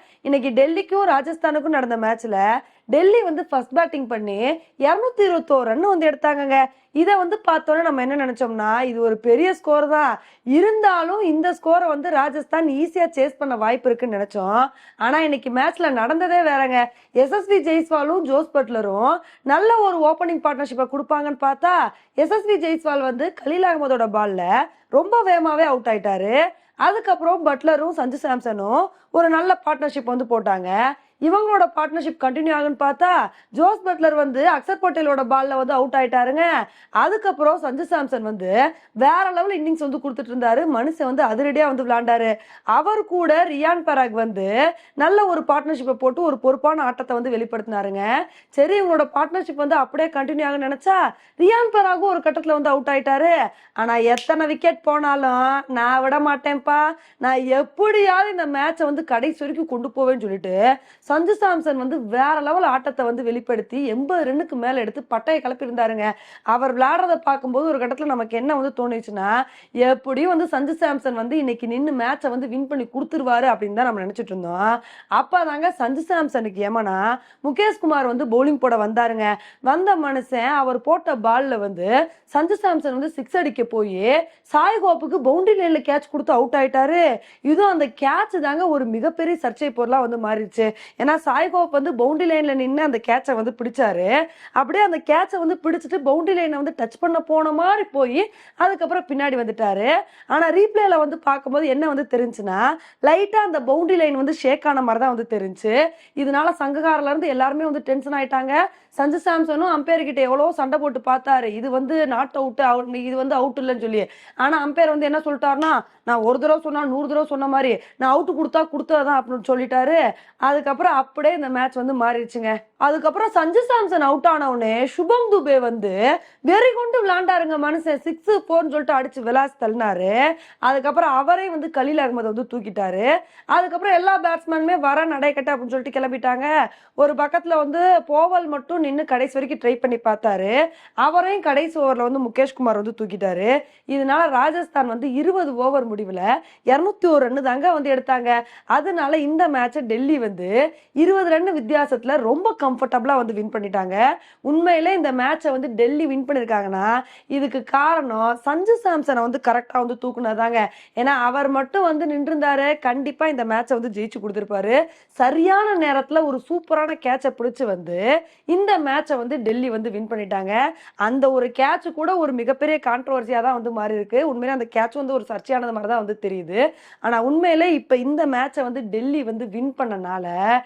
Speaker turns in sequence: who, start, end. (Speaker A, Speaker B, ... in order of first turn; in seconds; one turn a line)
Speaker A: 0.2-30.7
Speaker A: 31.2-36.5
Speaker A: 37.0-130.1
Speaker A: 130.7-180.3